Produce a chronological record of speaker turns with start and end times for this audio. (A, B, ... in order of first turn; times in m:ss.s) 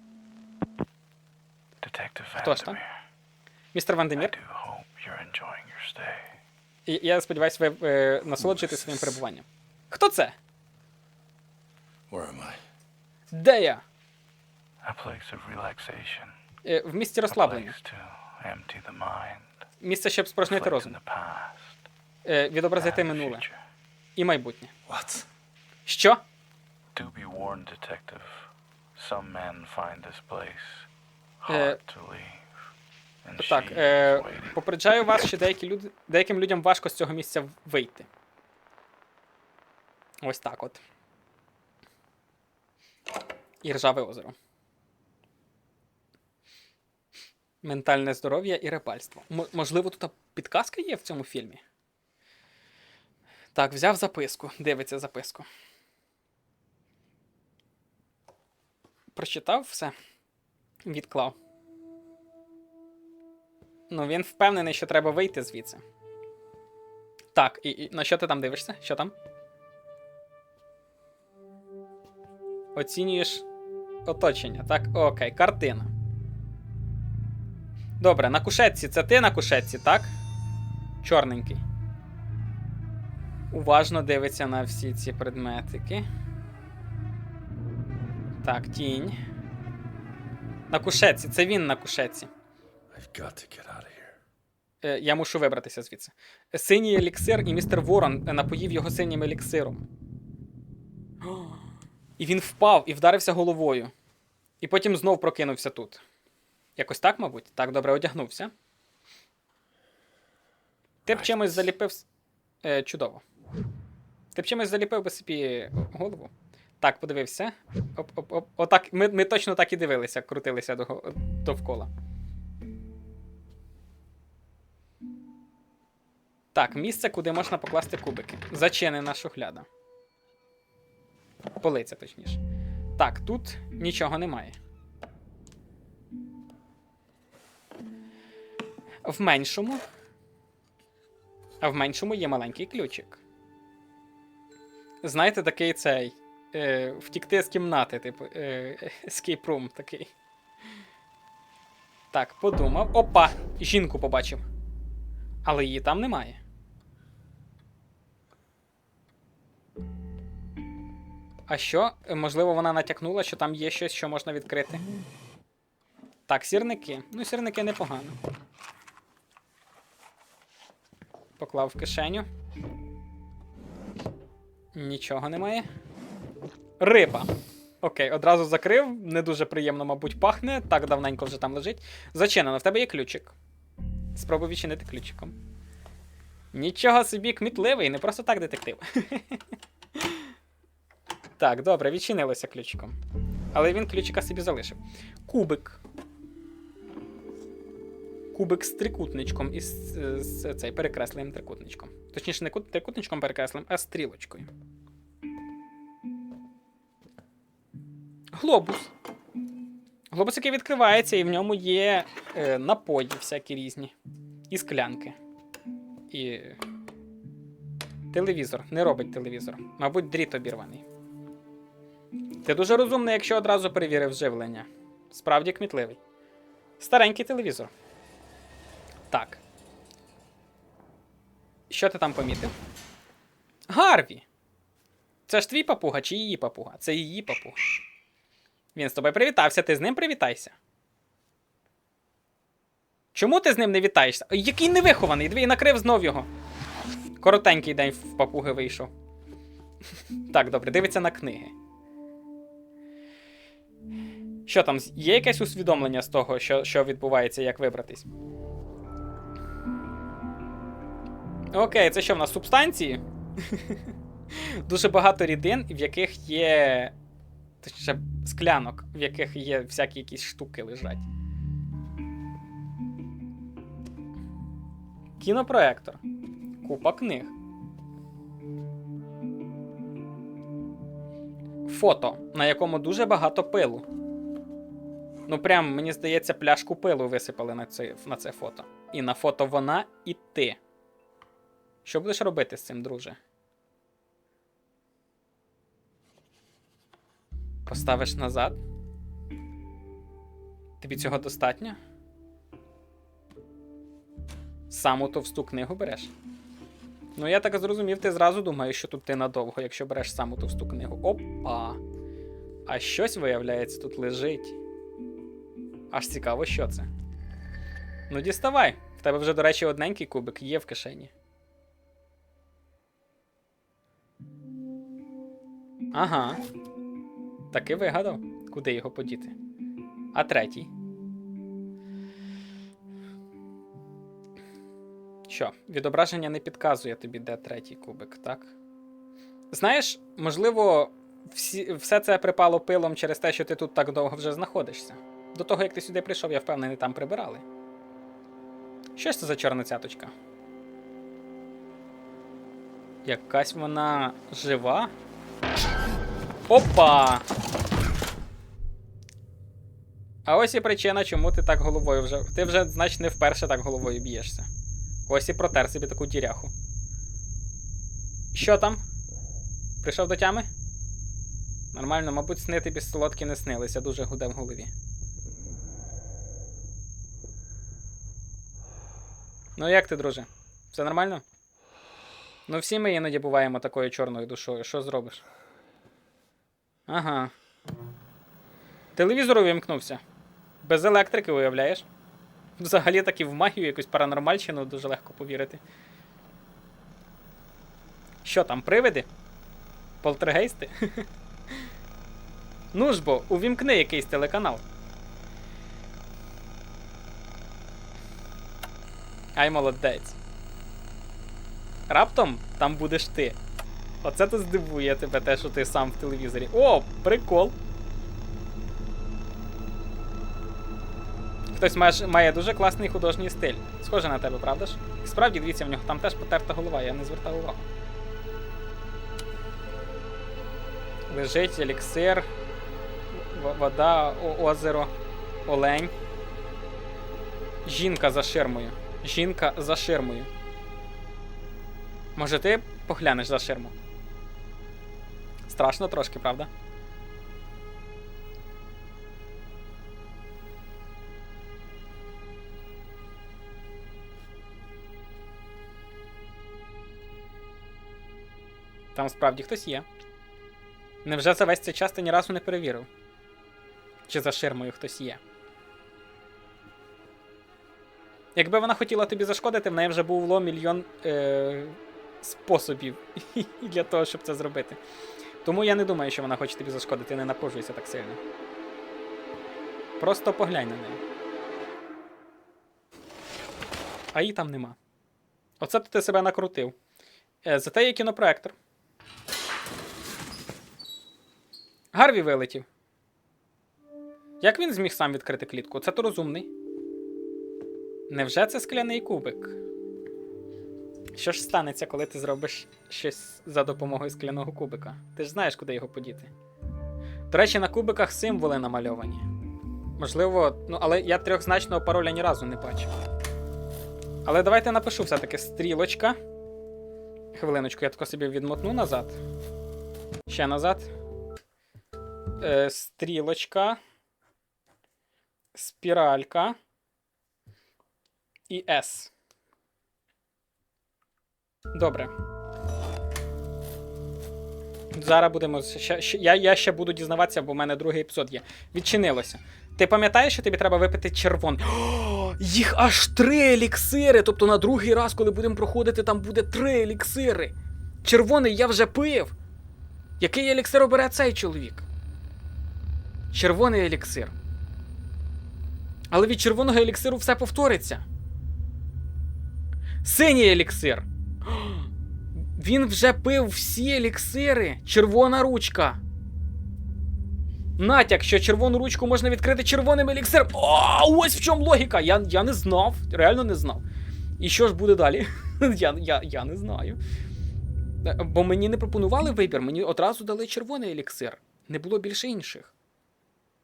0:01.8-0:02.8 A
0:02.4-0:02.8 B
0:03.7-0:04.3 B
0:04.2-0:06.3 A
0:06.8-0:10.4 B
0:12.1-0:12.6 C
0:13.3-0:13.8 B
0:14.8-0:16.3 A
0:16.6-0:17.7 B
0:17.3-0:19.5 A
0:19.8-0:20.9 B
0:20.4-0:21.8 A
0:22.2-0:23.4 B
0:22.8-0:23.5 A
0:24.2-0:24.7 B
0:24.9-0:25.2 C
0:25.8-0:26.2 B
0:26.9-0:30.9 A
0:31.4-0:32.5 A
0:31.5-0:31.8 B
0:33.2-0:34.5 A
0:33.4-0:38.1 B
0:40.2-0:40.8 B
0:43.6-0:44.3 B
0:47.6-0:51.6 B
0:53.5-0:55.5 B
0:59.1-0:59.9 B
1:00.8-1:01.4 B
1:03.9-1:05.8 B
1:07.3-1:09.1 B
1:12.7-1:13.4 B
1:14.0-1:15.9 B
1:18.0-1:20.1 B
1:21.0-1:21.6 B
1:23.5-1:26.0 B
1:28.4-1:29.2 B
1:30.7-1:32.3 B
1:32.9-1:34.1 C
1:34.8-1:39.8 B
1:42.2-1:43.9 B
1:44.6-1:46.0 B
1:46.8-1:48.5 B
1:51.0-1:52.0 B
1:51.1-1:51.6 A
1:52.6-1:53.2 B
1:54.3-2:01.9 B
2:06.5-2:09.7 B
2:11.6-2:12.4 B
2:13.0-2:14.6 B
2:19.0-2:19.8 B
2:21.6-2:23.2 B
2:25.0-2:30.1 B
2:32.1-2:34.4 B
2:35.4-2:36.4 B
2:41.5-2:44.8 B
2:46.3-2:48.2 B
2:51.4-2:52.2 B
2:54.7-2:55.7 B
2:56.8-2:57.3 B
2:57.8-3:03.3 B
3:04.1-3:05.3 B
3:06.5-3:09.4 B
3:10.0-3:10.3 B
3:11.4-3:13.0 B
3:13.5-3:15.8 B
3:18.3-3:24.5 B
3:28.3-3:28.9 B
3:30.1-3:33.9 B
3:34.5-3:35.2 B
3:36.1-3:36.6 B
3:38.1-3:40.8 B
3:42.4-3:46.0 B
3:46.8-3:47.7 B
3:49.1-3:49.4 B
3:51.7-3:52.5 B
3:53.7-3:54.2 B
3:55.3-3:57.6 B
3:58.7-4:00.6 B
4:03.1-4:06.3 B
4:07.2-4:08.9 B
4:10.1-4:11.5 B
4:14.4-4:18.1 B
4:21.5-4:26.9 B
4:27.6-4:31.1 B
4:35.2-4:36.0 B
4:36.6-4:37.3 B
4:41.6-4:43.8 B
4:45.3-4:50.6 B
4:51.8-4:53.2 B
4:57.6-4:58.6 B
5:00.8-5:01.8 B
5:04.7-5:06.1 B
5:07.2-5:11.8 B
5:12.6-5:14.6 B
5:15.9-5:16.9 B
5:18.1-5:21.1 B
5:25.9-5:26.4 B
5:27.5-5:29.3 B
5:30.1-5:30.7 B
5:35.3-5:38.5 B
5:39.5-5:47.4 B
5:49.0-5:50.1 B
5:53.0-5:54.9 B
5:56.5-5:57.2 B
6:00.2-6:04.5 B
6:05.1-6:06.5 B
6:08.3-6:08.8 B
6:09.8-6:10.5 B
6:11.7-6:14.7 B
6:19.6-6:21.2 B
6:22.5-6:25.2 B
6:26.9-6:27.3 B
6:28.9-6:30.0 B
6:30.6-6:31.9 B
6:32.6-6:35.6 B
6:38.2-6:39.1 B
6:40.0-6:41.0 B
6:42.7-6:44.6 B
6:49.4-6:50.2 B
6:51.9-6:53.4 B
6:54.0-6:57.6 B
7:01.5-7:07.7 B
7:11.1-7:12.2 B
7:13.1-7:14.9 B
7:15.4-7:15.9 B
7:17.6-7:20.3 B
7:22.2-7:23.7 B
7:25.5-7:26.5 B
7:38.9-7:39.8 B
7:41.0-7:42.9 B
7:44.1-7:45.2 B
7:48.3-7:54.8 B
7:55.4-7:58.2 B
8:00.0-8:01.0 B
8:04.1-8:04.8 B
8:05.6-8:06.7 B
8:07.4-8:08.5 B
8:11.9-8:12.6 B
8:14.4-8:16.5 B
8:18.1-8:19.6 B
8:21.1-8:26.3 B
8:27.3-8:29.2 B
8:30.0-8:32.9 B
8:34.2-8:36.2 B
8:37.3-8:39.2 B
8:40.3-8:40.9 B
8:42.4-8:43.8 B
8:45.5-8:46.6 B
8:48.5-8:49.1 B
8:51.7-8:52.1 B
8:54.9-9:09.3 B
9:10.2-9:11.9 B
9:13.3-9:14.3 B
9:16.1-9:18.0 B
9:20.0-9:21.9 B
9:22.6-9:26.0 B
9:27.8-9:33.8 B
9:34.4-9:37.0 B
9:38.0-9:42.7 B